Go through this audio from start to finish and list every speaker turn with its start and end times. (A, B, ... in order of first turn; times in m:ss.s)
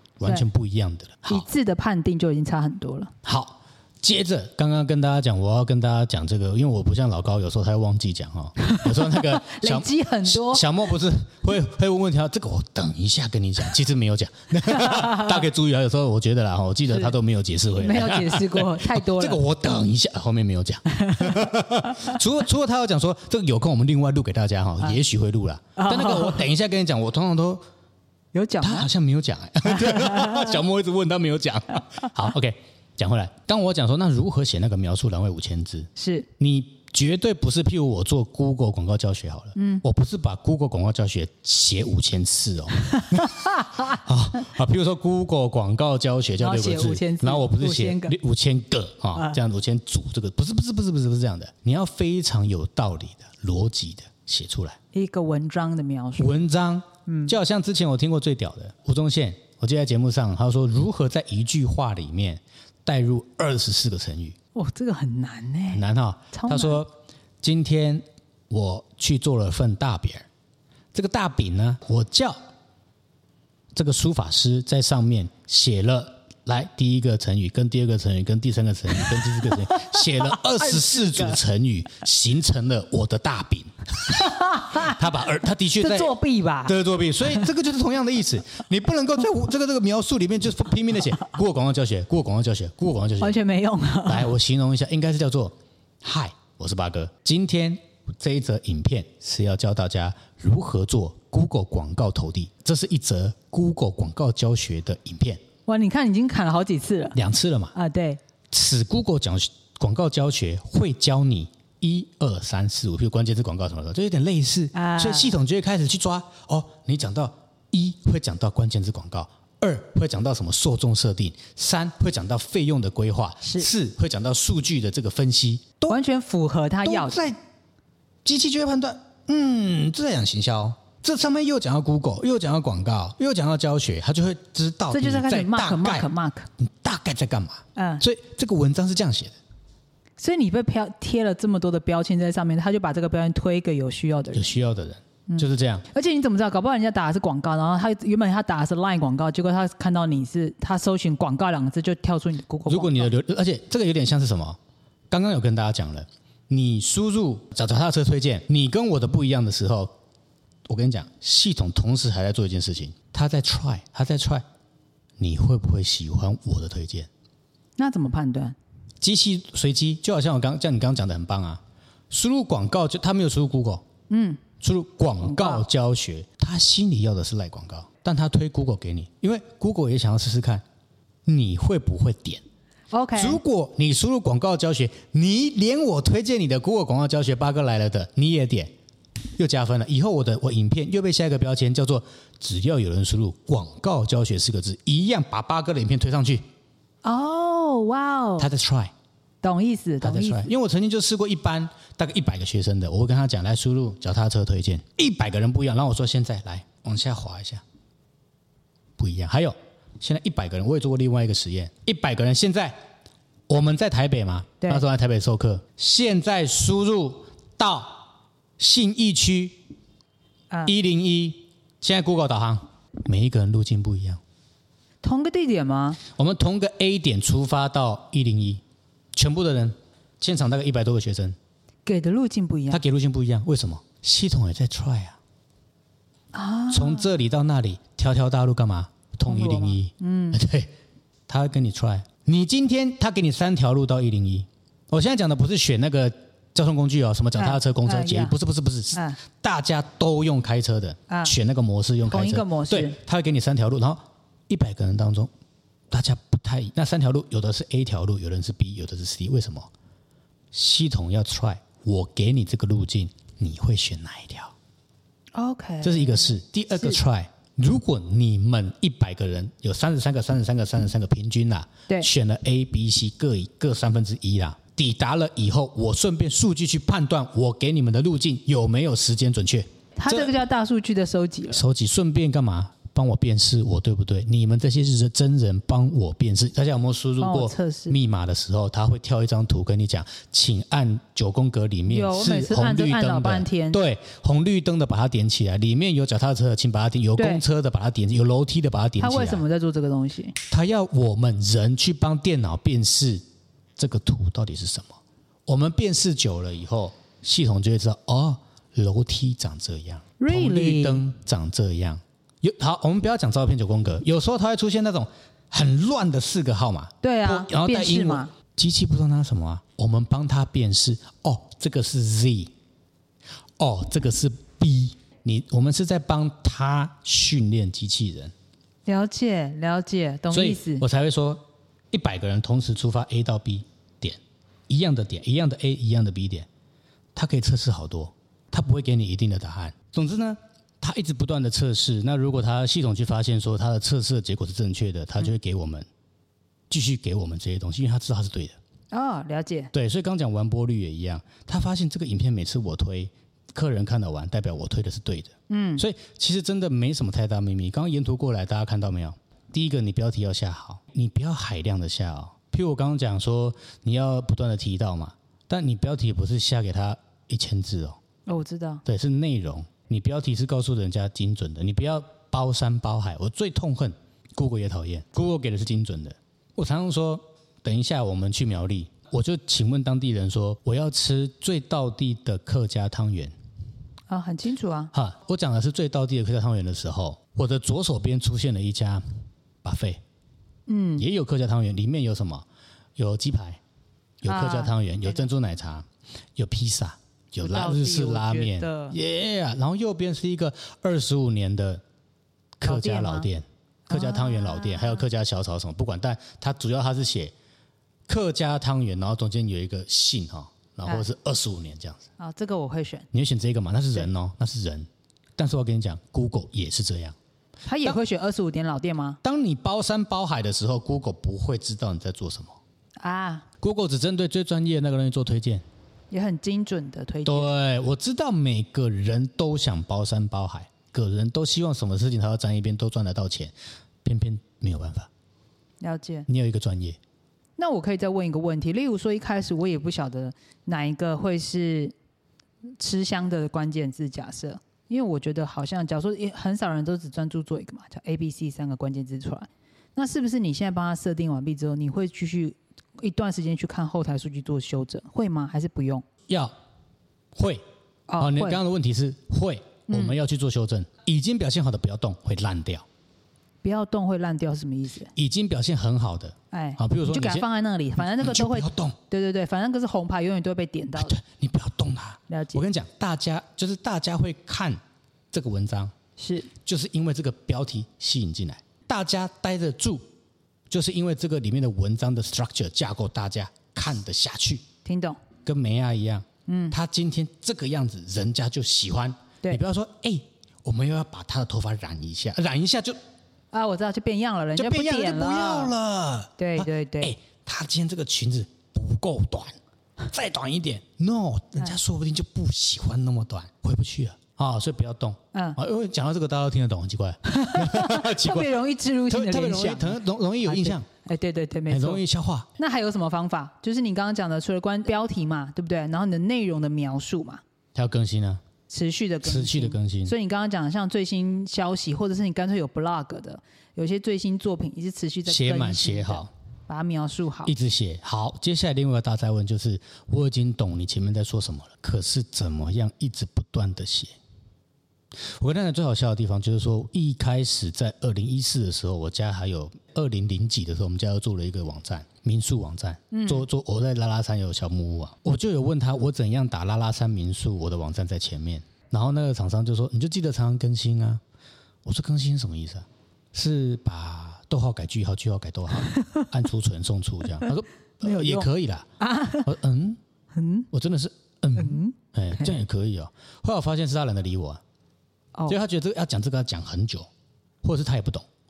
0:00.2-0:01.4 A
0:01.3-0:03.1 B
0:03.2-0:27.6 A
0:08.8-0:10.6 B
0:14.8-0:15.4 B
0:16.9-0:17.1 B
0:17.7-0:19.4 B
0:21.0-0:22.1 B
0:25.8-0:26.4 B
0:28.3-0:28.9 B
0:28.6-0:54.8 A
0:29.7-0:30.5 B
0:36.0-0:36.3 B
0:39.6-0:39.8 B
0:42.9-0:43.8 B
0:46.4-0:48.2 B
0:54.9-0:56.3 B
0:56.2-1:04.4 A
0:57.1-0:57.3 B
1:04.5-1:06.8 B
1:05.7-1:06.9 A
1:07.4-1:10.3 A
1:10.9-1:12.4 A
1:13.7-1:26.1 A
1:19.0-1:21.4 B
1:24.0-1:25.0 B
1:25.8-1:27.5 B
1:26.6-1:33.4 A
1:33.2-1:34.3 B
1:34.0-1:45.4 A
1:45.6-1:47.2 B
1:47.1-1:47.7 A
1:47.7-1:48.2 B
1:48.5-2:06.0 A
1:54.7-1:55.4 B
2:03.4-2:03.7 B
2:05.9-2:07.2 B
2:06.8-2:07.4 A
2:08.2-2:19.4 A
2:14.9-2:16.5 B
2:17.7-2:18.0 B
2:20.2-2:24.5 B
2:24.3-2:25.8 A
2:25.3-2:33.1 B
2:32.7-2:34.6 A
2:35.1-2:39.9 A
2:40.7-2:44.4 A
2:45.2-2:47.1 A
2:47.8-2:48.6 B
2:49.0-2:53.8 A
2:54.1-2:54.4 B
2:54.6-3:00.6 A
2:55.2-2:55.6 B
3:01.2-3:02.4 A
3:02.9-3:03.4 B
3:03.2-3:08.7 A
3:09.4-3:16.4 A
3:17.0-3:18.5 B
3:18.4-3:18.9 A
3:19.4-3:20.5 B
3:20.0-3:27.6 A
3:29.0-3:32.8 A
3:33.5-3:38.1 A
3:38.6-3:39.6 A
3:40.6-3:44.2 A
3:45.0-3:46.0 B
3:46.1-3:48.6 A
3:49.1-3:51.4 A
3:51.8-3:52.8 B
3:52.7-3:55.2 A
3:56.3-3:57.1 B
3:56.7-4:00.7 A
3:59.2-4:00.4 B
4:01.3-4:15.3 A
4:07.4-4:08.4 B
4:08.9-4:09.2 B
4:11.1-4:11.3 B
4:12.0-4:13.0 B
4:15.9-4:19.7 A
4:20.5-4:24.5 A
4:25.3-4:27.0 B
4:25.8-4:40.3 A
4:40.0-4:41.6 B
4:41.5-4:59.4 A
4:47.2-4:48.0 B
4:51.9-4:53.8 B
4:57.2-4:57.4 B
4:59.0-5:00.4 B
5:00.5-5:03.2 A
5:03.8-5:22.5 A
5:10.2-5:11.0 B
5:17.0-5:18.3 B
5:23.6-5:28.3 A
5:28.8-5:30.8 B
5:30.3-5:36.5 A
5:37.1-5:45.9 A
5:46.7-5:48.6 A
5:48.9-5:49.7 B
5:49.7-6:08.0 A
5:55.5-5:55.8 B
6:08.2-6:08.8 B
6:08.8-6:23.3 A
6:24.1-6:24.9 B
6:24.9-6:29.0 A
6:29.6-6:30.0 A
6:30.7-6:31.0 B
6:31.0-6:32.4 A
6:33.0-6:33.6 A
6:34.2-6:41.8 A
6:34.2-6:35.2 B
6:37.4-6:39.0 B
6:42.6-6:47.3 A
6:42.6-6:43.3 B
6:43.9-6:45.0 B
6:48.1-6:52.0 A
6:52.2-6:53.1 B
6:53.1-6:57.1 A
6:57.7-6:59.2 B
6:59.2-7:02.6 A
7:03.0-7:03.4 B
7:03.6-7:05.6 A
7:06.1-7:07.5 B
7:07.2-7:13.5 A
7:14.0-7:15.1 A
7:15.8-7:16.3 B
7:16.3-7:17.0 A
7:17.6-7:21.9 B
7:22.8-7:36.0 B
7:36.3-7:36.5 A
7:37.3-7:37.6 A
7:38.1-7:38.6 B
7:38.2-7:42.8 A
7:39.9-7:40.2 B
7:43.6-7:45.1 B
7:45.1-7:47.4 A
7:46.5-7:51.1 B
7:48.0-7:49.0 A
7:51.0-7:54.8 A
7:52.3-7:52.6 B
7:55.3-7:55.9 A
7:56.2-7:56.5 B
7:56.6-8:00.0 A
8:00.7-8:04.6 A
8:04.8-8:05.2 B
8:05.4-8:13.0 A
8:06.5-8:06.8 B
8:13.5-8:15.7 B
8:14.5-8:30.9 A
8:16.4-8:17.1 B
8:25.3-8:25.6 B
8:27.3-8:32.0 B
8:31.7-8:32.5 A
8:32.6-8:37.4 B
8:37.7-8:38.4 A
8:38.7-8:47.5 B
8:39.2-8:40.1 A
8:45.2-8:46.3 A
8:47.4-8:54.1 A
8:55.2-9:11.2 A
9:03.1-9:03.5 B
9:11.8-9:18.9 A
9:15.8-9:16.2 B
9:17.4-9:18.5 B
9:19.0-9:19.5 B
9:19.4-9:20.0 A
9:20.3-9:20.7 B
9:20.7-9:24.6 A
9:21.6-9:22.5 B
9:25.5-9:27.1 A
9:27.6-9:28.2 A